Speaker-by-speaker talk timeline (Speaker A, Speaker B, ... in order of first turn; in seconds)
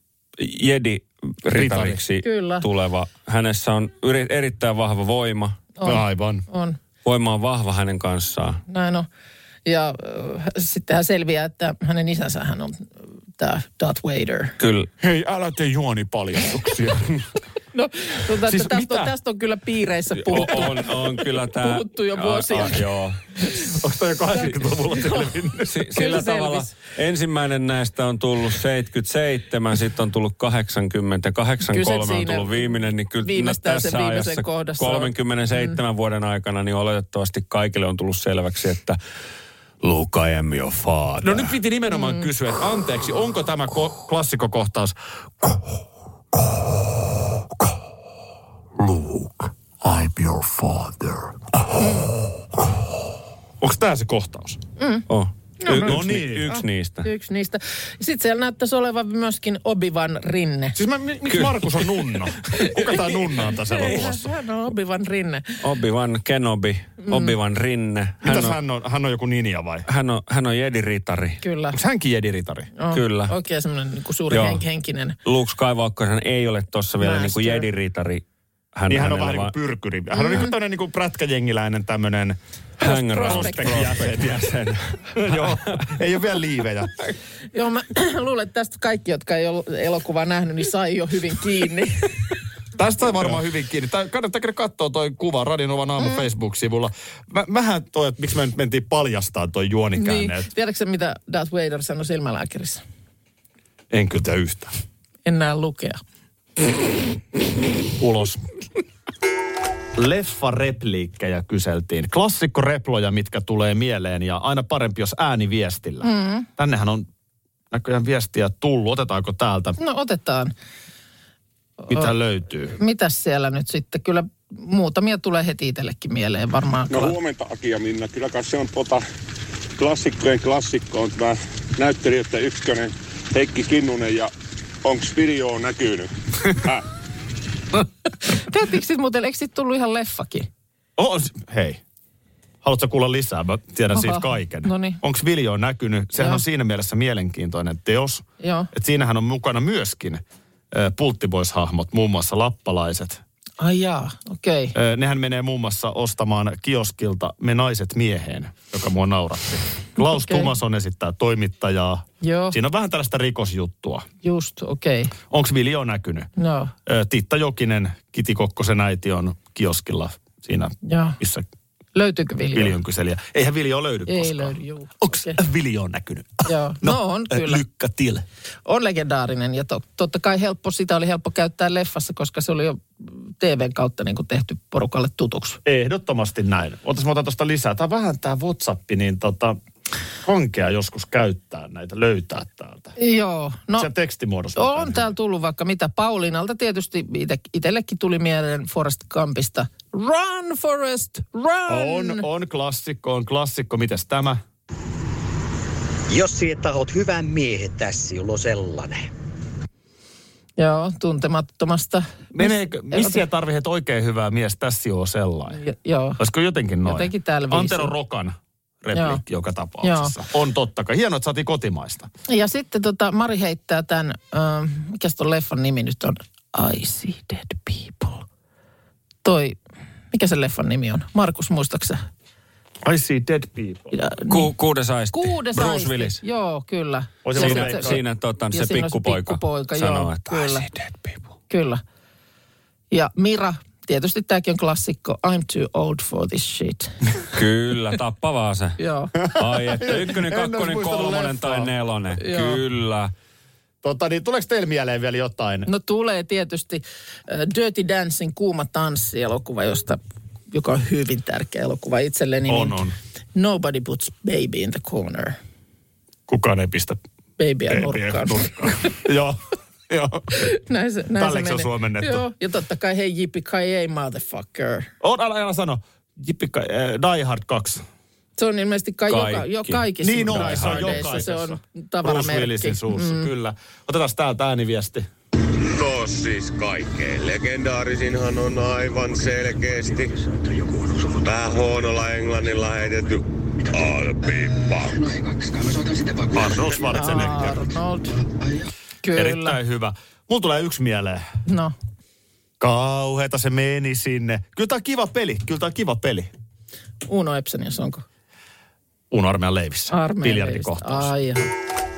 Speaker A: 0.4-5.6, 7.0-8.6, 14.6-14.9, 20.2-23.2, 25.6-39.0, 39.8-41.5, 48.9-49.3, 49.8-51.1, 55.1-57.1, 61.3-61.6, 62.6-62.9, 65.6-68.6, 69.9-71.4, 72.9-73.3, 74.3-74.6, 75.2-78.2, 78.7-79.5, 82.8-85.8, 234.3-236.2, 237.3-241.2, 247.3-253.1, 279.1-281.0
Speaker B: 1.5-2.0, 5.8-6.4, 15.0-17.1, 18.4-19.1, 23.5-25.9, 41.2-45.0, 53.6-54.6, 55.8-56.5, 60.8-64.3, 68.2-69.8, 71.7-72.7, 78.9-82.4, 83.2-84.6, 85.1-87.0, 92.8-100.5, 103.9-104.7, 108.0-108.4, 110.0-117.1, 117.7-119.8, 121.9-122.8, 141.0-141.8, 142.6-153.2, 154.7-164.1, 165.3-166.3, 166.8-171.5, 172.5-178.2, 185.6-189.6, 190.2-192.9, 193.8-195.1, 201.7-204.4, 212.3-215.6, 216.2-222.1, 232.8-233.9, 237.2-238.0, 249.4-251.7, 253.8-255.7, 262.5-262.9, 266.3-267.0, 267.7-270.5, 271.1-272.2, 275.0-277.8, 280.0-285.1, 296.3-297.7, 299.1-301.2, 302.6-306.3, 309.1-311.1
Speaker C: 2.2-2.6, 5.8-6.8, 8.7-9.1, 9.7-14.6, 17.7-22.8, 24.4-25.3, 25.9-26.7, 31.6-35.8, 41.9-42.2, 51.8-52.1, 54.8-55.0, 55.6-60.8, 62.5-63.0, 63.5-65.5, 67.0-67.3, 71.4-71.8, 72.8-75.2, 77.0-77.7, 80.2-80.5, 82.8-83.9, 87.5-92.2, 96.0-96.3, 100.0-102.8, 105.2-106.0, 116.0-116.5, 119.8-120.5, 121.8-122.1, 122.8-127.1, 138.2-140.5, 143.9-145.0, 146.2-146.4, 148.4-148.7, 153.6-154.7, 160.0-160.5, 162.2-162.6, 164.2-165.1, 166.4-166.7, 170.8-171.2, 171.9-172.8, 174.1-175.4, 176.4-177.6, 178.7-185.6, 193.0-193.9, 194.6-202.2, 210.6-213.2, 215.5-216.2, 216.8-217.9, 218.9-219.2, 219.8-220.2, 222.3-228.2, 229.2-229.6, 230.1-232.0, 233.9-234.5, 235.1-240.7, 241.5-241.8, 242.9-247.1, 248.8-249.2, 252.2-252.6, 255.7-262.8, 263.3-265.4, 267.4-269.0, 270.4-274.9, 278.4-283.3, 296.9-298.2, 299.0-299.6, 301.4-301.7, 307.1-308.0, 309.9-311.5
Speaker D: 126.9-129.0, 129.8-134.3, 134.8-136.8
Speaker E: 206.1-209.1
Speaker F: 285.5-295.2